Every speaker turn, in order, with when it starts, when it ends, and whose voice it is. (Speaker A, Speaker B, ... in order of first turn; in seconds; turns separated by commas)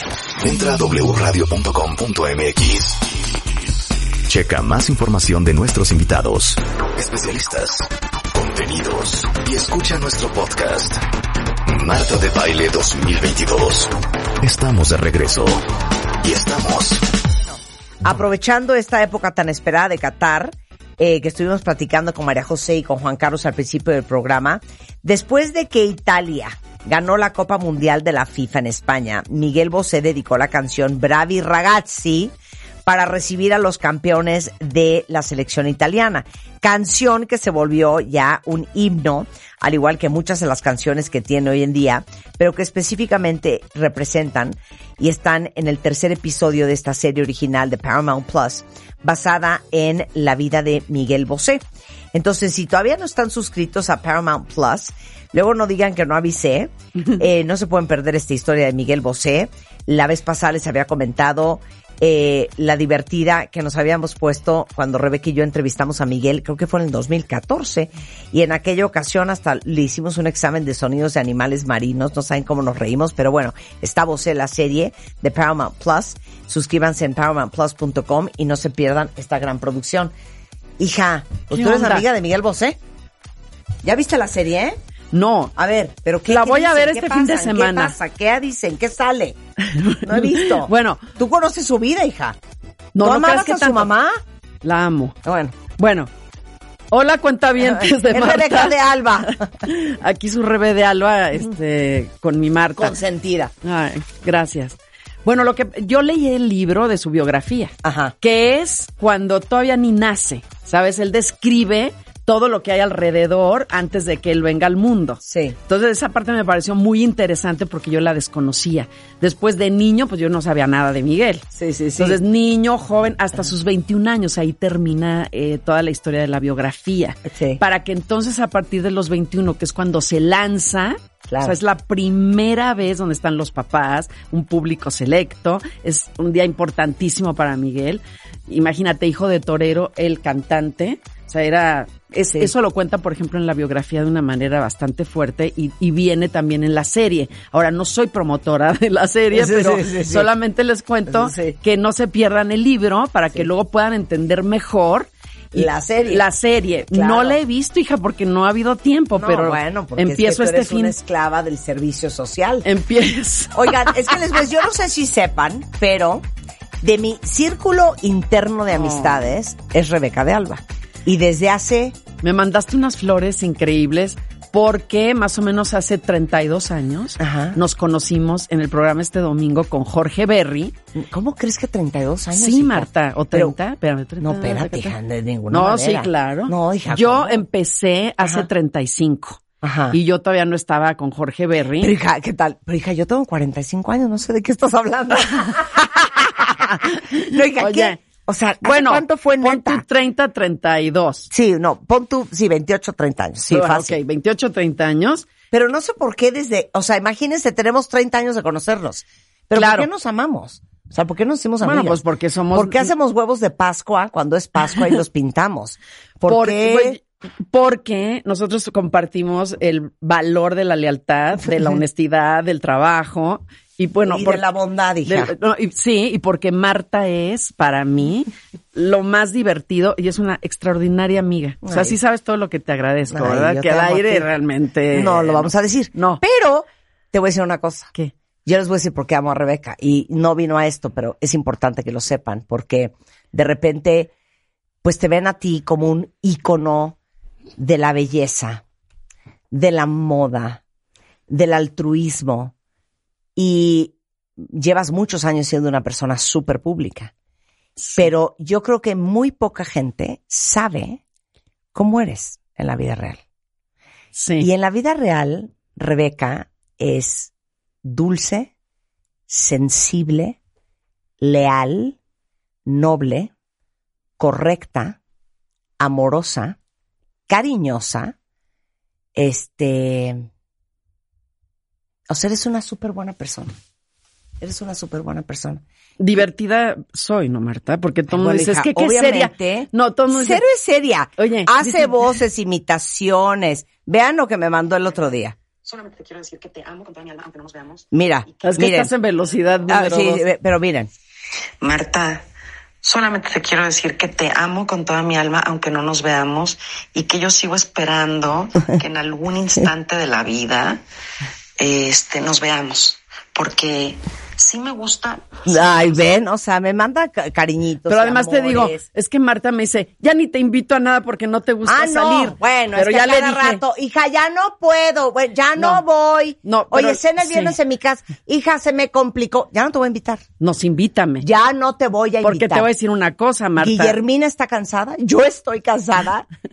Speaker A: 0.4-3.0, Speaker A: 4.3-11.0, Speaker A: 11.7-13.9, Speaker A: 14.4-15.6, Speaker A: 16.2-17.0, Speaker B: 18.0-32.3, Speaker B: 32.9-51.6, Speaker B: 52.1-80.1, Speaker B: 80.8-82.8, Speaker C: 81.5-82.0, Speaker B: 83.8-84.8, Speaker C: 85.1-85.6, Speaker B: 85.6-89.4, Speaker C: 86.3-87.9, Speaker C: 89.6-91.2, Speaker B: 90.0-92.4, Speaker C: 93.0-93.9, Speaker B: 93.0-94.2, Speaker C: 94.6-95.2, Speaker B: 95.2-95.6, Speaker C: 95.7-96.1, Speaker C: 96.9-98.8, Speaker B: 97.6-99.5, Speaker C: 99.6-103.0, Speaker B: 102.8-103.5, Speaker C: 103.6-160.9, Speaker B: 107.8-108.1, Speaker B: 115.2-115.6, Speaker B: 121.5-122.2, Speaker B: 127.3-127.6, Speaker B: 131.3-131.6, Speaker B: 142.2-142.5, Speaker B: 149.3-150.3, Speaker B: 151.1-151.6, Speaker B: 155.5-156.2, Speaker B: 156.9-157.4, Speaker B: 159.2-162.7, Speaker C: 162.6-163.9, Speaker B: 163.6-166.2, Speaker B: 166.8-171.9, Speaker C: 168.7-169.3, Speaker C: 172.2-180.8, Speaker B: 177.2-177.6, Speaker B: 180.9-183.6, Speaker C: 182.3-184.9, Speaker B: 184.2-187.4, Speaker C: 185.5-191.9, Speaker B: 189.6-189.9, Speaker B: 191.8-199.8, Speaker C: 197.6-198.1, Speaker C: 198.6-201.3, Speaker B: 201.3-203.9, Speaker C: 203.5-205.3, Speaker B: 205.5-212.0, Speaker C: 209.5-209.9, Speaker C: 211.6-212.9, Speaker B: 212.5-217.0, Speaker C: 216.3-224.4, Speaker B: 224.1-225.3, Speaker C: 225.1-236.2, Speaker B: 231.6-232.0, Speaker B: 233.1-234.3, Speaker B: 234.9-237.9, Speaker B: 238.4-244.1, Speaker B: 244.8-247.0, Speaker B: 247.6-248.6, Speaker B: 249.5-250.6, Speaker B: 251.3-252.5, Speaker B: 253.4-257.1, Speaker B: 258.0-261.0, Speaker B: 261.7-263.2, Speaker C: 264.1-264.5, Speaker B: 264.4-267.3, Speaker B: 267.8-268.5, Speaker B: 269.3-270.4, Speaker B: 271.2-272.0, Speaker B: 272.7-273.3, Speaker B: 274.2-275.0, Speaker B: 275.8-276.6, Speaker B: 277.3-278.1, Speaker B: 279.2-280.2, Speaker B: 282.1-283.5, Speaker B: 284.4-285.6, Speaker C: 286.0-290.4, Speaker B: 288.1-295.4, Speaker C: 291.2-292.0, Speaker D: 295.6-297.9, Speaker B: 297.9-298.9, Speaker C: 298.4-300.2, Speaker B: 299.7-300.9, Speaker D: 301.6-302.2, Speaker D: 302.8-310.8, Speaker D: 311.6-316.1, Speaker B: 315.5-318.8, Speaker C: 317.9-323.6, Speaker B: 321.6-330.2, Speaker C: 325.6-325.8, Speaker C: 326.4-327.6, Speaker C: 330.4-331.2, Speaker B: 331.2-332.6, Speaker C: 332.2-334.0, Speaker B: 333.6-336.3